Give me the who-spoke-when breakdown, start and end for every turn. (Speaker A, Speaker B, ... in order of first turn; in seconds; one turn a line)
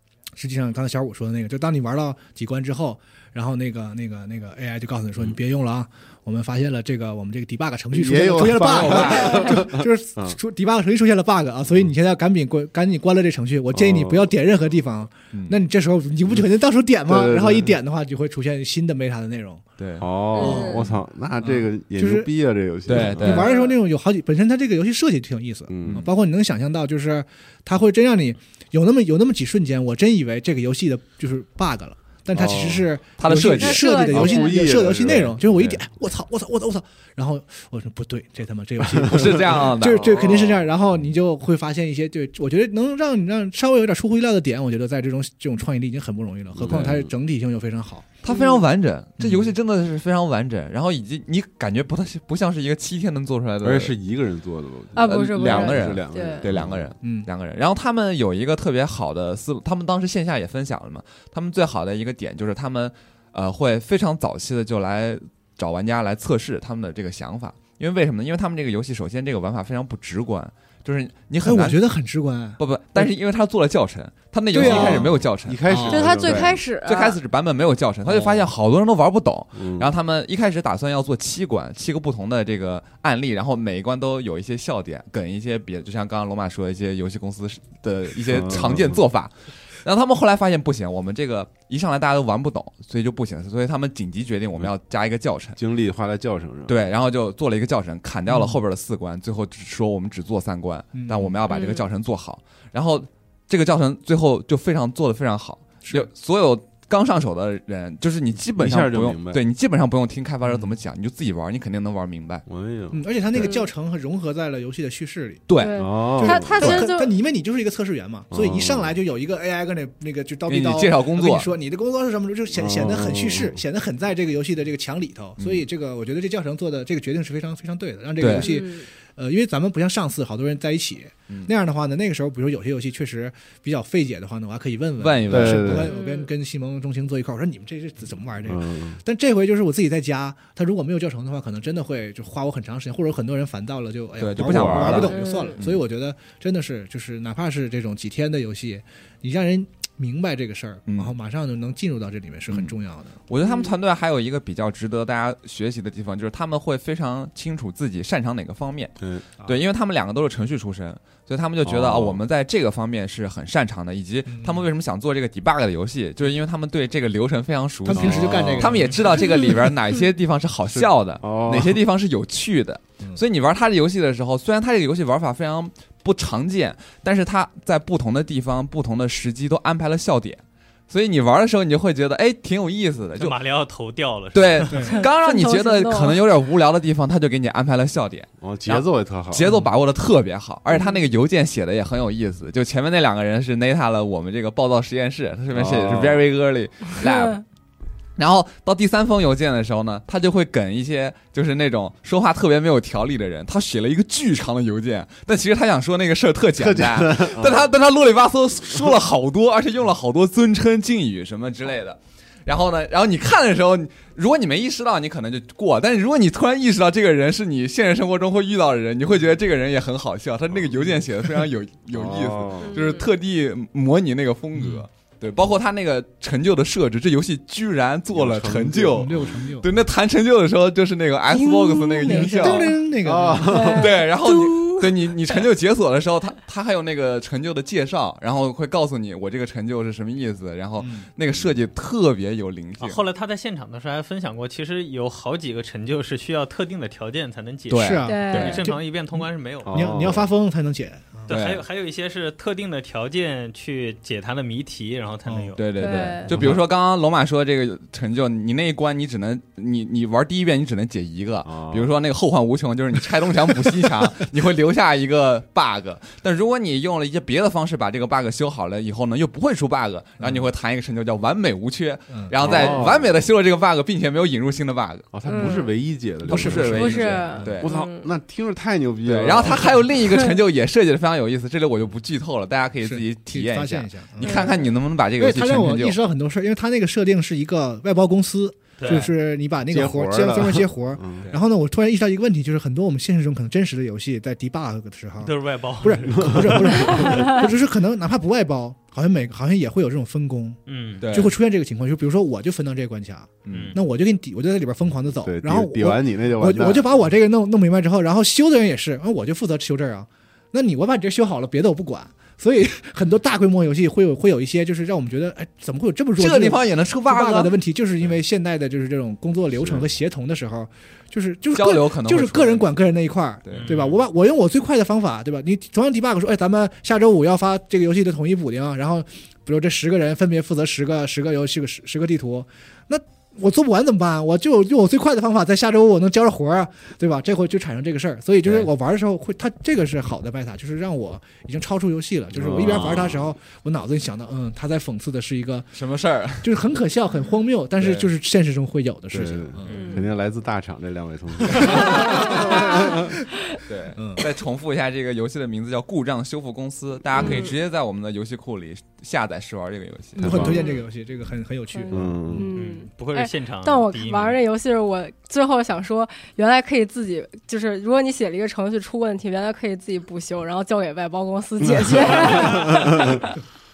Speaker A: 0.3-19.6
Speaker B: 7.9-10.4
Speaker C: 8.7-9.6
Speaker B: 13.7-14.3
Speaker C: 15.3-15.6
Speaker B: 17.1-17.7
Speaker C: 19.8-20.1
Speaker B: 20.0-23.5
Speaker D: 20.3-20.8
Speaker A: 20.4-20.9
Speaker A: 21.4-22.3
Speaker C: 22.9-23.6
Speaker A: 22.9-48.2
Speaker D: 23.3-23.8
Speaker B: 25.7-26.1
Speaker B: 32.3-32.9
Speaker C: 33.2-33.9
Speaker D: 33.5-34.5
Speaker B: 33.9-35.4
Speaker C: 35.1-35.7
Speaker B: 38.8-39.6
Speaker C: 39.1-40.6
Speaker B: 46.5-47.1
Speaker C: 48.2-53.9
Speaker D: 48.3-48.6
Speaker A: 49.2-49.5
Speaker B: 53.6-56.9
Speaker D: 54.9-56.5
Speaker C: 55.0-71.8
Speaker A: 57.0-57.3
Speaker A: 71.4-73.1
Speaker C: 72.6-95.6
Speaker A: 74.5-75.1
Speaker B: 74.5-76.6
Speaker D: 74.7-75.0
Speaker A: 75.7-76.0
Speaker D: 75.9-77.2
Speaker B: 79.5-79.9
Speaker B: 88.3-89.0
Speaker B: 95.6-96.9
Speaker C: 96.7-112.5
Speaker A: 98.3-98.6
Speaker A: 100.9-101.4
Speaker D: 101.5-101.8
Speaker A: 105.8-106.1
Speaker B: 108.5-109.4
Speaker A: 110.5-110.7
Speaker B: 112.5-113.5
Speaker A: 112.9-115.5
Speaker D: 113.4-113.7
Speaker C: 115.5-115.8
Speaker D: 115.6-117.1
Speaker B: 115.8-116.8
Speaker A: 116.2-153.2
Speaker C: 116.6-116.8
Speaker B: 118.3-118.9
Speaker C: 120.5-121.5
Speaker B: 122.5-123.6
Speaker C: 125.4-125.7
Speaker C: 128.2-128.5
Speaker D: 128.4-128.9
Speaker C: 135.0-135.9
Speaker B: 135.3-135.9
Speaker D: 135.8-136.3
Speaker B: 138.5-139.0
Speaker C: 144.2-145.8
Speaker B: 144.4-145.1
Speaker D: 145.0-145.6
Speaker C: 150.9-151.1
Speaker C: 153.3-158.9
Speaker D: 153.4-153.7
Speaker B: 159.0-159.3
Speaker C: 159.4-183.4
Speaker B: 161.6-162.2
Speaker A: 164.3-164.7
Speaker A: 167.8-169.7
Speaker B: 167.9-168.8
Speaker B: 170.7-171.8
Speaker E: 183.2-185.0
Speaker C: 184.3-197.4
Speaker A: 184.7-184.9
Speaker D: 184.9-186.2
Speaker B: 188.4-189.5
Speaker B: 195.5-196.3
Speaker D: 197.0-197.4
Speaker C: 198.2-232.8
Speaker B: 206.6-207.7
Speaker B: 221.9-222.9
Speaker D: 222.6-223.1
Speaker A: 224.5-224.8
Speaker B: 228.1-229.4
Speaker A: 228.9-229.7
Speaker D: 231.3-232.7
Speaker A: 232.0-233.8
Speaker B: 233.0-233.9
Speaker D: 233.5-234.9
Speaker C: 233.7-243.0
Speaker A: 240.8-241.1
Speaker E: 242.8-249.9
Speaker C: 247.7-248.6
Speaker A: 247.7-251.3
Speaker D: 248.1-248.6
Speaker B: 249.7-250.3
Speaker E: 251.3-255.6
Speaker C: 251.3-251.6
Speaker A: 255.3-255.6
Speaker C: 255.6-275.1
Speaker D: 255.8-256.3
Speaker B: 256.3-256.6
Speaker B: 261.4-261.9
Speaker A: 270.2-270.5
Speaker A: 272.1-272.8
Speaker B: 272.4-273.1
Speaker B: 275.1-277.1
Speaker D: 275.3-275.7
Speaker A: 276.3-277.6
Speaker C: 276.3-277.7
Speaker D: 276.7-278.1
Speaker B: 277.6-279.8
Speaker C: 279.1-286.0
Speaker A: 282.8-284.6
Speaker D: 284.2-284.7
Speaker A: 285.2-345.7
Speaker E: 288.8-289.1
Speaker B: 289.7-291.3
Speaker E: 295.2-297.1
Speaker B: 296.1-297.3
Speaker E: 300.7-301.1
Speaker C: 301.0-301.4
Speaker C: 303.4-303.8
Speaker E: 303.5-303.8
Speaker B: 305.2-306.9
Speaker C: 316.2-317.6
Speaker C: 321.5-322.7
Speaker C: 323.4-323.8
Speaker E: 323.5-324.0
Speaker C: 338.4-338.7
Speaker B: 342.3-343.3
Speaker C: 345.7-346.5
Speaker A: 346.4-349.7
Speaker C: 347.8-348.1
Speaker B: 349.1-352.9
Speaker D: 349.7-350.1
Speaker D: 351.9-352.4
Speaker C: 353.7-360.5
Speaker A: 353.9-354.2
Speaker D: 357.2-357.5
Speaker A: 360.1-362.5
Speaker B: 360.2-360.6
Speaker D: 360.5-360.8
Speaker D: 361.7-373.2
Speaker B: 361.9-362.5
Speaker E: 362.6-364.4
Speaker B: 372.4-373.2